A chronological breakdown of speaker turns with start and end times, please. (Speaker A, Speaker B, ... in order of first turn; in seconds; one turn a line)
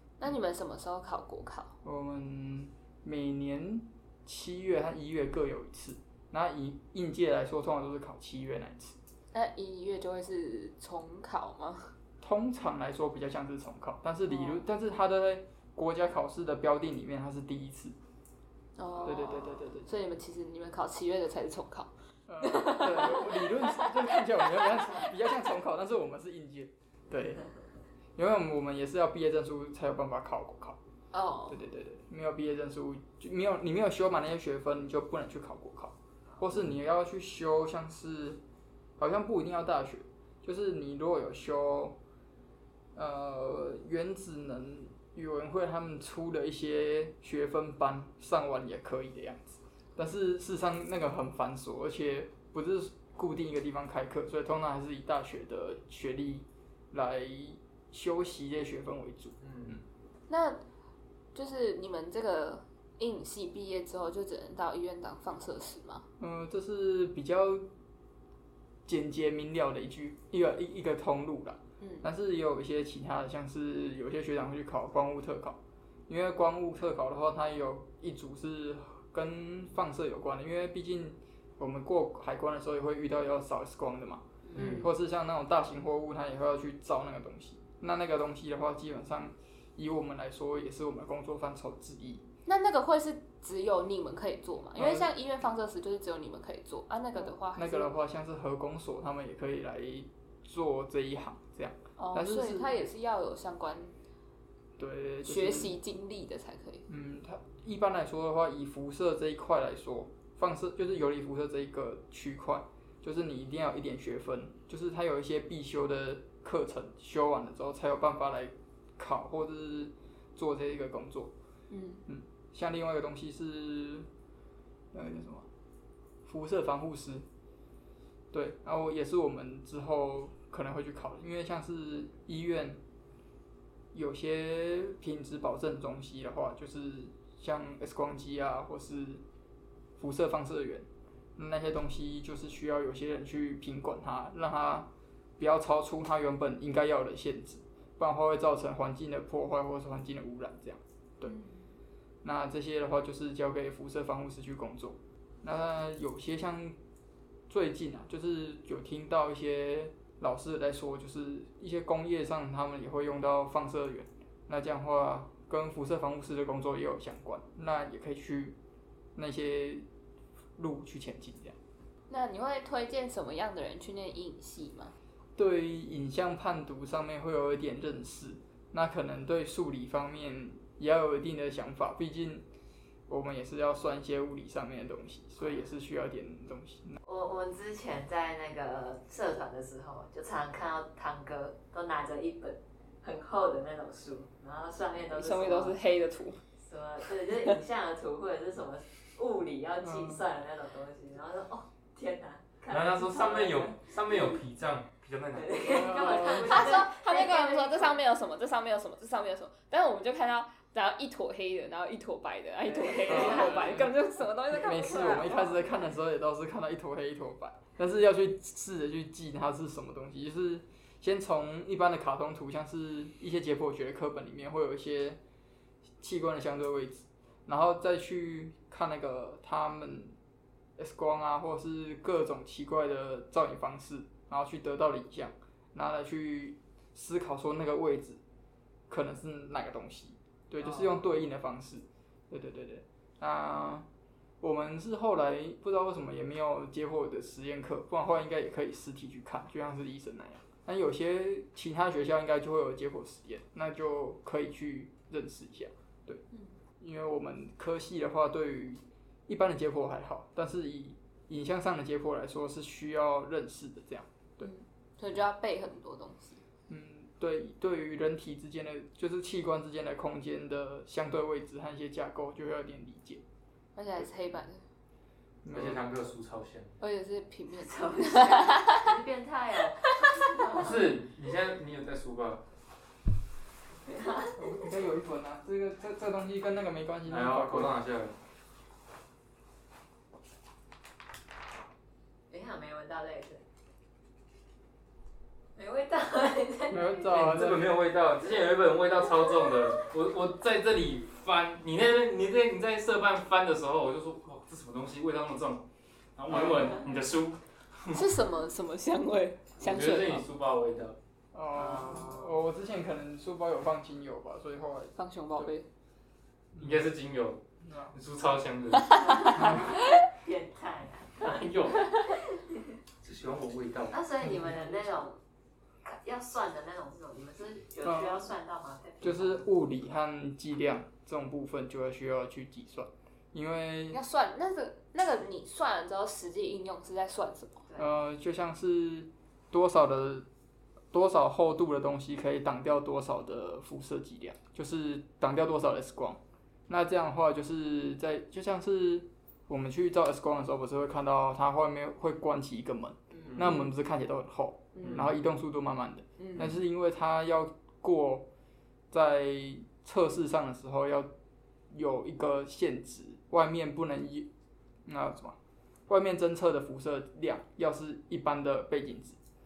Speaker A: 0.2-1.7
Speaker B: 1.8-8.9
Speaker A: 9.3-11.9
Speaker B: 12.2-17.9
Speaker A: 14.3-14.6
Speaker A: 18.8-21.9
Speaker B: 19.0-19.9
Speaker B: 22.3-27.5
Speaker A: 22.4-25.0
Speaker B: 28.1-30.8
Speaker A: 31.1-31.6
Speaker B: 31.5-38.4
Speaker B: 39.0-42.0
Speaker B: 42.9-59.8
Speaker C: 59.4-59.8
Speaker A: 60.3-60.6
Speaker A: 61.3-66.0
Speaker B: 66.2-67.7
Speaker B: 68.8-92.2
Speaker A: 71.8-72.0
Speaker A: 84.5-84.9
Speaker C: 84.6-84.8
Speaker A: 92.5-97.9
Speaker B: 94.7-95.1
Speaker B: 97.5-102.7
Speaker A: 102.0-103.9
Speaker B: 104.8-105.8
Speaker A: 105.2-106.8
Speaker B: 106.9-121.3
Speaker A: 121.7-122.0
Speaker B: 122.1-124.1
Speaker B: 124.9-125.5
Speaker B: 126.2-127.2
Speaker B: 128.3-132.8
Speaker B: 133.9-139.2
Speaker B: 140.0-151.3
Speaker A: 151.2-151.6
Speaker B: 152.2-156.8
Speaker B: 157.5-168.6
Speaker B: 169.2-169.8
Speaker B: 170.6-171.6
Speaker A: 172.1-174.9
Speaker B: 175.4-182.4
Speaker B: 183.1-187.0
Speaker D: 187.0-195.8
Speaker A: 195.1-196.4
Speaker D: 196.6-203.8
Speaker B: 199.8-200.2
Speaker C: 202.7-206.0
Speaker D: 205.3-208.0
Speaker B: 205.6-206.7
Speaker A: 206.2-215.6
Speaker D: 212.7-213.9
Speaker B: 213.0-213.9
Speaker B: 214.4-225.2
Speaker B: 226.0-230.2
Speaker B: 230.8-238.2
Speaker B: 238.9-243.8
Speaker D: 240.6-240.9
Speaker B: 244.4-256.2
Speaker B: 256.8-264.5
Speaker A: 264.4-266.4
Speaker B: 266.7-273.2
Speaker A: 273.8-274.6
Speaker B: 275.4-275.9
Speaker C: 275.5-276.7
Speaker A: 276.8-278.9
Speaker D: 277.6-280.9
Speaker C: 280.5-282.4
Speaker D: 283.8-284.4
Speaker B: 284.3-287.7
Speaker C: 287.1-288.1
Speaker D: 292.3-293.4
Speaker D: 295.6-297.2
Speaker B: 296.7-297.8
Speaker C: 297.1-305.6
Speaker C: 306.2-308.0
Speaker B: 306.3-306.7
Speaker A: 307.9-310.2
Speaker C: 309.6-311.0
Speaker B: 311.3-315.5
Speaker D: 311.5-312.4
Speaker A: 314.9-315.7
Speaker B: 316.6-316.8
Speaker C: 316.6-319.1
Speaker B: 317.6-317.9
Speaker A: 318.9-319.8
Speaker D: 319.0-322.4
Speaker B: 319.3-319.6
Speaker C: 321.2-322.0
Speaker C: 323.0-324.3
Speaker D: 323.9-325.2
Speaker D: 325.8-329.4
Speaker B: 327.8-328.2
Speaker B: 329.0-334.0
Speaker A: 333.9-337.6
Speaker B: 337.8-340.2
Speaker B: 340.9-358.3
Speaker A: 354.7-355.0
Speaker C: 354.8-355.1
Speaker A: 356.2-356.5
Speaker B: 358.9-361.1
Speaker B: 361.7-364.3
Speaker B: 364.9-365.4
Speaker B: 365.9-369.2